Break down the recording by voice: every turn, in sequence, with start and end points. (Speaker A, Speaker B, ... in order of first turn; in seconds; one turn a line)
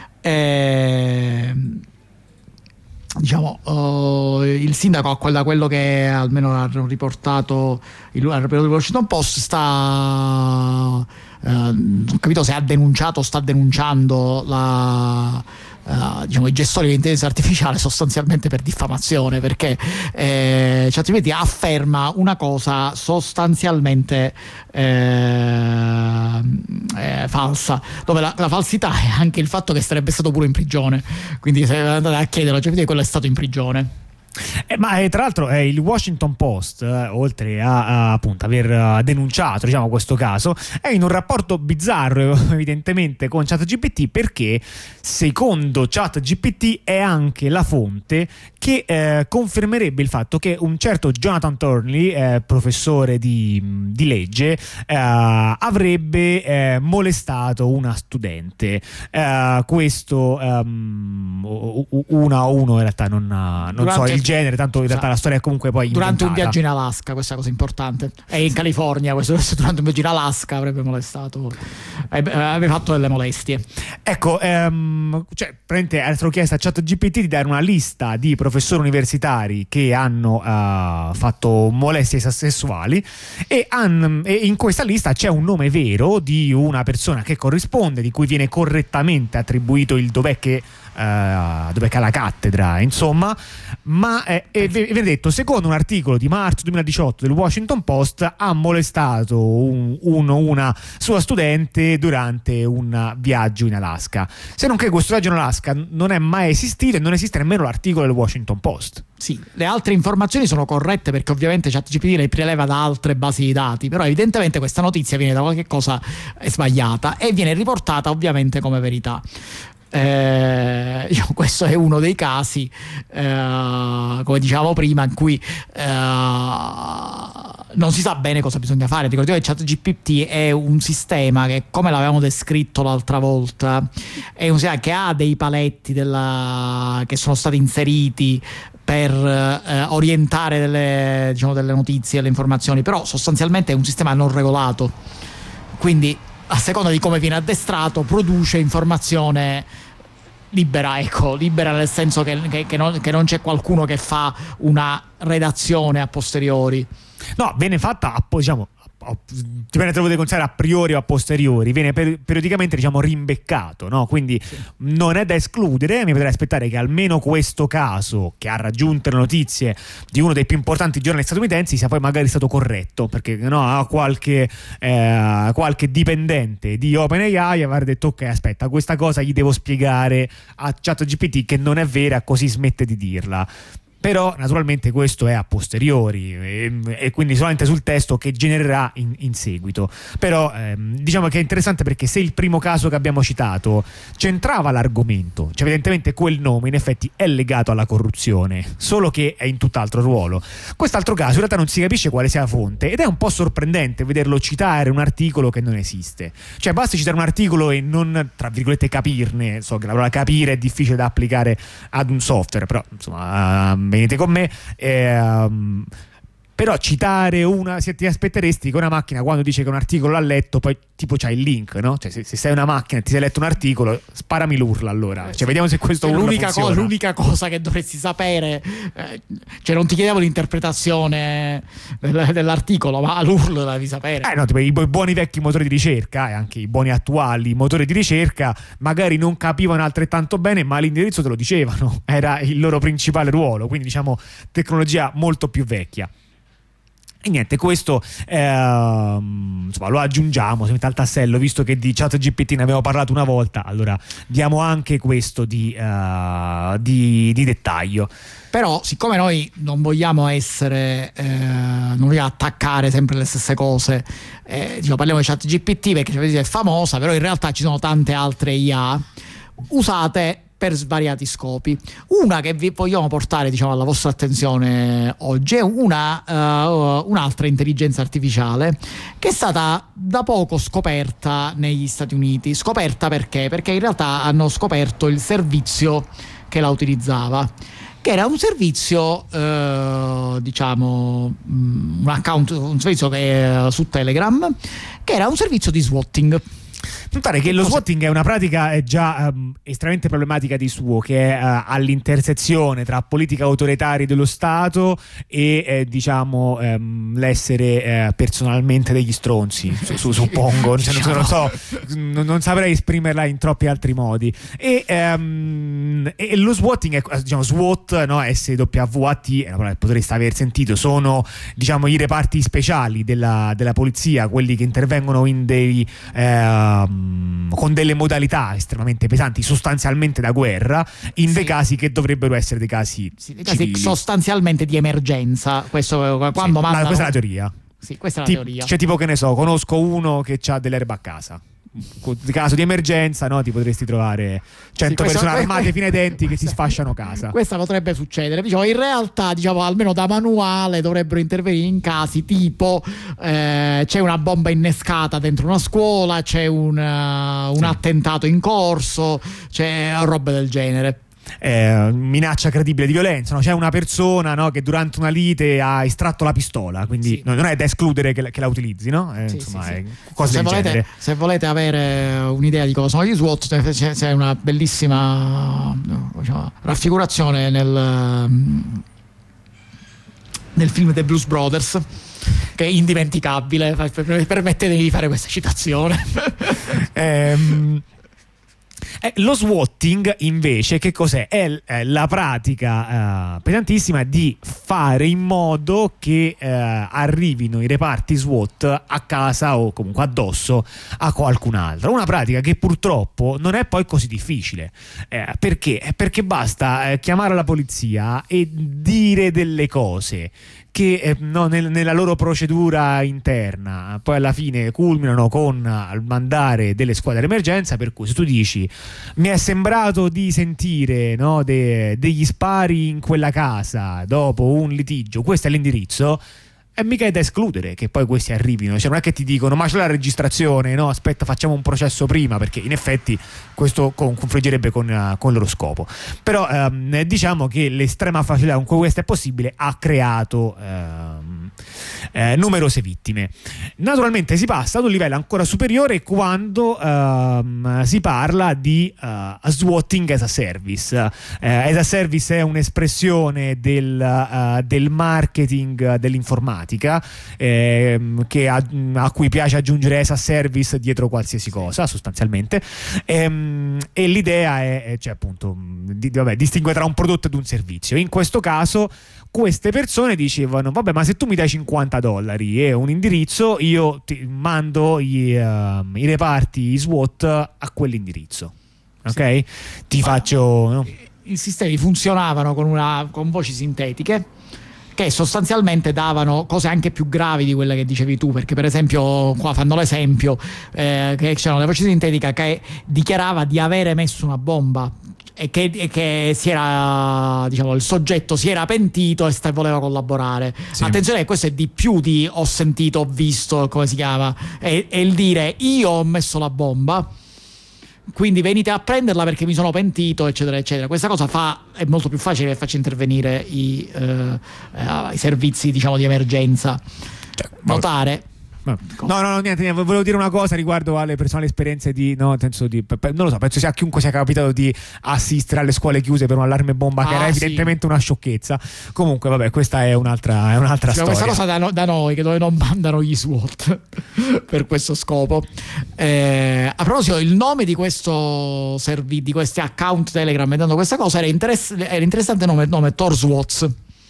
Speaker A: 0.2-1.8
Speaker A: 3.1-33.9
Speaker B: 34.7-66.5
Speaker A: 63.7-64.3
Speaker A: 65.9-73.6
Speaker B: 74.0-109.0
Speaker A: 109.2-119.2
Speaker A: 119.9-145.0
Speaker A: 145.8-149.7
Speaker A: 150.5-156.9
Speaker B: 157.4-183.5
Speaker B: 184.0-215.9
Speaker B: 216.6-226.9
Speaker A: 226.0-234.3
Speaker B: 234.2-246.1
Speaker B: 247.2-258.1
Speaker A: 258.5-269.1
Speaker A: 269.7-287.5
Speaker A: 288.0-296.4
Speaker B: 297.1-334.0
Speaker A: 297.4-297.8
Speaker A: 309.8-311.6
Speaker A: 331.3-331.5
Speaker A: 333.2-337.1
Speaker B: 336.4-337.5
Speaker A: 337.8-338.7
Speaker B: 338.2-347.3
Speaker A: 344.9-346.7
Speaker A: 347.3-361.0
Speaker B: 361.4-370.9
Speaker A: 369.3-378.8
Speaker A: 380.5-381.8
Speaker A: 382.5-386.7
Speaker B: 386.7-387.8
Speaker B: 389.0-426.2
Speaker B: 426.8-441.5
Speaker B: 442.1-478.5
Speaker B: 479.0-480.9
Speaker A: 481.2-484.3
Speaker A: 484.9-507.1
Speaker A: 508.1-516.8
Speaker A: 517.6-518.2
Speaker B: 518.6-531.4
Speaker A: 527.0-527.7
Speaker A: 530.9-543.7